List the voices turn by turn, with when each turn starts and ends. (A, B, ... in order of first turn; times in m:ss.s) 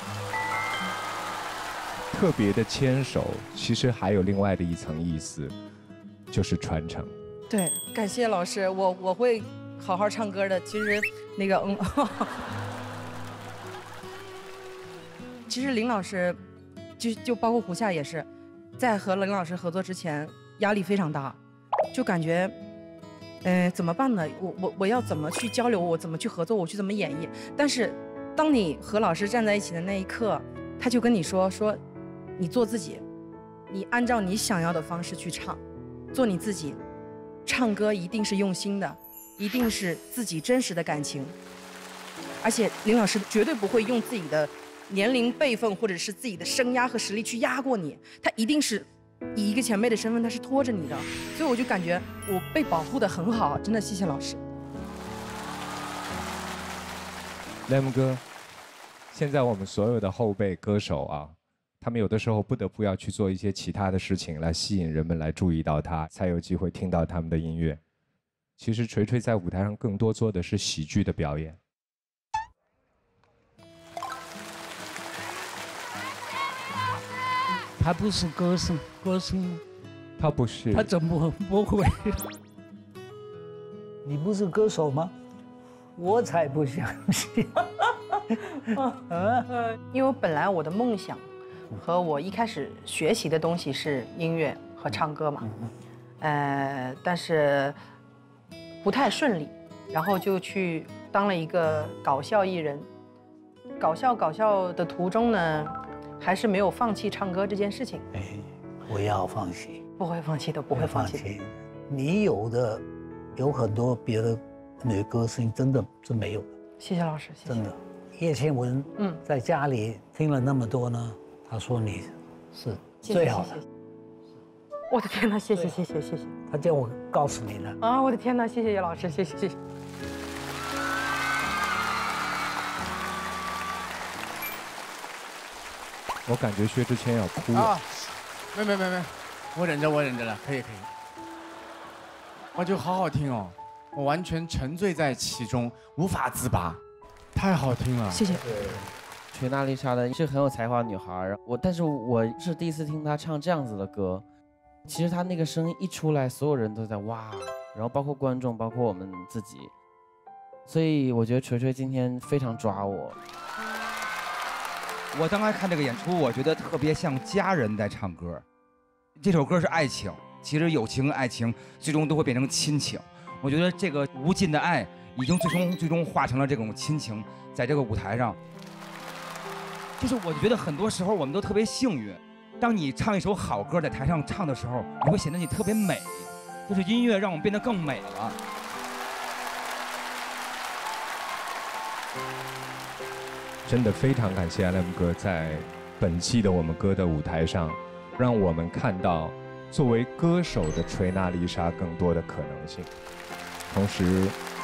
0:02.1-0:05.5 A
0:06.3-0:07.1 A
0:07.5-0:12.3 B
0:15.5-0:16.4 B
0:17.0-0:18.3 B
0:18.8-0:21.4 B
0:21.9-0:22.5 B
0:23.4-0:31.8 B
0:32.4-0:33.0 B
0:33.7-0:35.6 B
0:36.1-0:36.8 B
0:37.5-0:41.4 B
0:42.4-0:54.4 B
0:57.7-0:58.2 A
0:59.1-1:07.8 A
1:08.6-1:11.6 A
1:17.8-1:19.6 C
1:20.2-1:20.9 A
1:20.7-1:22.3 C
1:24.0-1:25.1 C
1:26.0-1:27.5 C
1:29.1-1:29.5 C
1:29.9-1:31.3 B
1:31.8-1:35.4 B
1:35.4-1:35.7 C
1:36.2-1:37.8 B
1:38.8-1:42.9 B
1:43.8-1:48.0 B
1:48.1-1:49.8 C
1:50.0-1:51.3 B
1:50.7-1:52.8 C
1:53.4-1:56.5 C
1:56.8-1:57.6 B
1:57.5-2:03.6 C
2:03.1-2:03.6 B
2:04.9-2:06.3 B
2:06.5-2:07.8 C
2:07.8-2:09.6 B
2:16.3-2:17.8 A
2:17.5-2:17.9 D
2:18.5-2:20.9 D
2:22.6-2:26.8 D
2:27.4-2:28.4 D
2:28.1-2:28.4 B
2:29.3-2:34.2 E
2:34.9-2:39.7 E
2:40.7-2:43.2 E
2:45.1-2:48.4 F
2:49.2-2:58.4 F
3:00.0-3:08.4 F
3:13.6-3:22.9 A
3:23.7-3:24.4 A